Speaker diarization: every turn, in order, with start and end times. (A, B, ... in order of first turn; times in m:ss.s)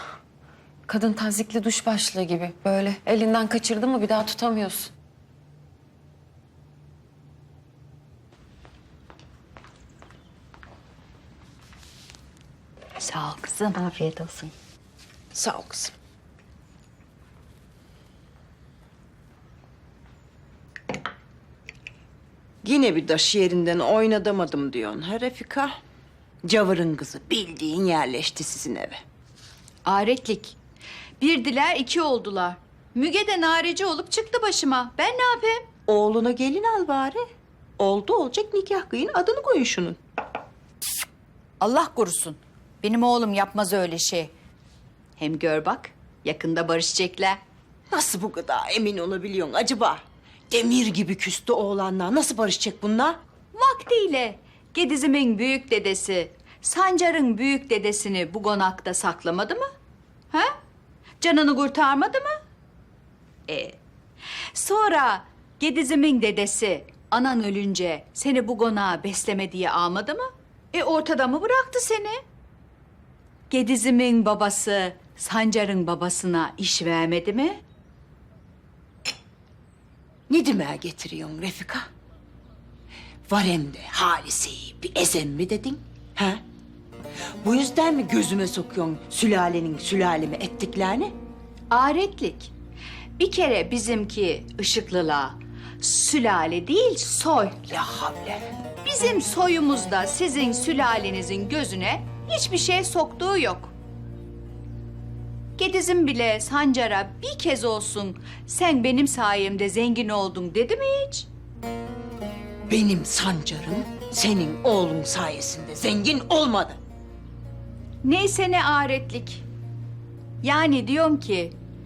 0:00.9-0:04.9 A
0:13.0-0:14.5 B
0:22.6-0:25.8 C
0:26.4-0:29.0 C
0:29.8-0:30.6 B
0:31.2-0:35.7 B
0:35.9-0:37.2 C
0:37.8-0:40.0 C
0:41.6-0:44.3 B
0:45.2-0:47.4 B
0:47.9-0:53.2 C
0:53.5-0:59.6 B
1:01.2-1:02.4 B
1:03.5-1:03.8 B
1:04.5-1:12.2 B
1:13.5-1:17.6 B
1:20.3-1:21.9 C
1:23.3-1:26.4 C
1:27.4-1:31.1 C
1:31.7-1:32.5 B
1:33.2-1:37.6 B
1:37.7-1:38.4 C
1:38.8-1:43.7 B
1:45.6-1:51.3 B
1:52.7-1:56.8 C
1:58.0-1:59.4 B
2:00.4-2:01.5 B